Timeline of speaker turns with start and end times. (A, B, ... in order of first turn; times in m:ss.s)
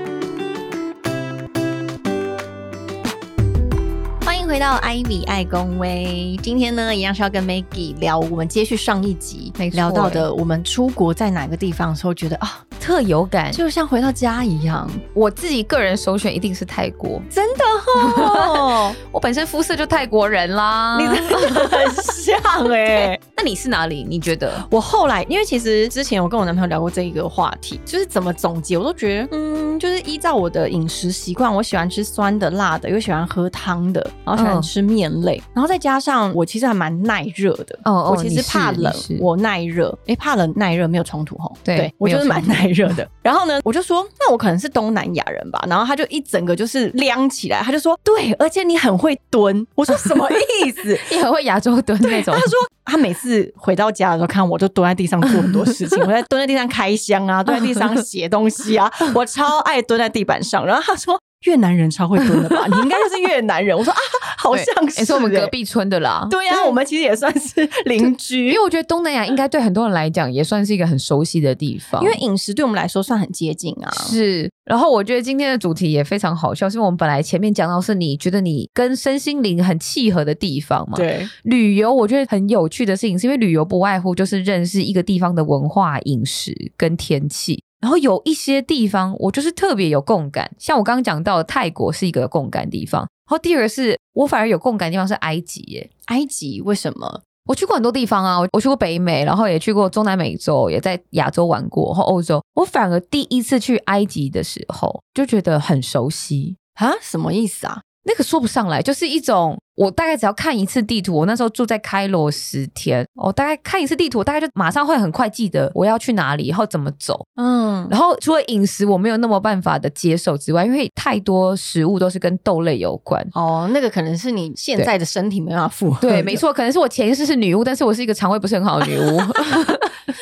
0:04.2-0:12.6 A
0:09.6-0:10.3 B
0:12.8-0:13.6 B
0:13.5-0:15.0 A
0:15.1-0:17.3 B
0:17.3-0:19.0 A
0:18.0-0:22.0 B
0:20.9-0:23.2 A
0:22.9-0:24.6 B
0:24.6-0:51.2 A
0:34.4-0:34.7 B
0:37.8-0:39.2 B
0:41.6-0:42.6 B
0:51.1-0:52.6 B
0:52.0-1:05.5 A
1:04.5-1:06.8 B
1:06.3-1:08.6 A
1:08.5-1:12.2 B
1:12.0-1:14.2 A
1:13.9-1:35.9 B
1:21.0-1:21.3 A
1:36.1-1:37.2 A
1:37.5-1:46.6 B
1:46.8-1:47.8 A
1:48.0-1:57.3 B
1:57.4-1:57.9 A
1:57.9-2:03.3 B
2:03.3-2:06.4 A
2:06.0-2:10.0 B
2:08.9-2:09.6 A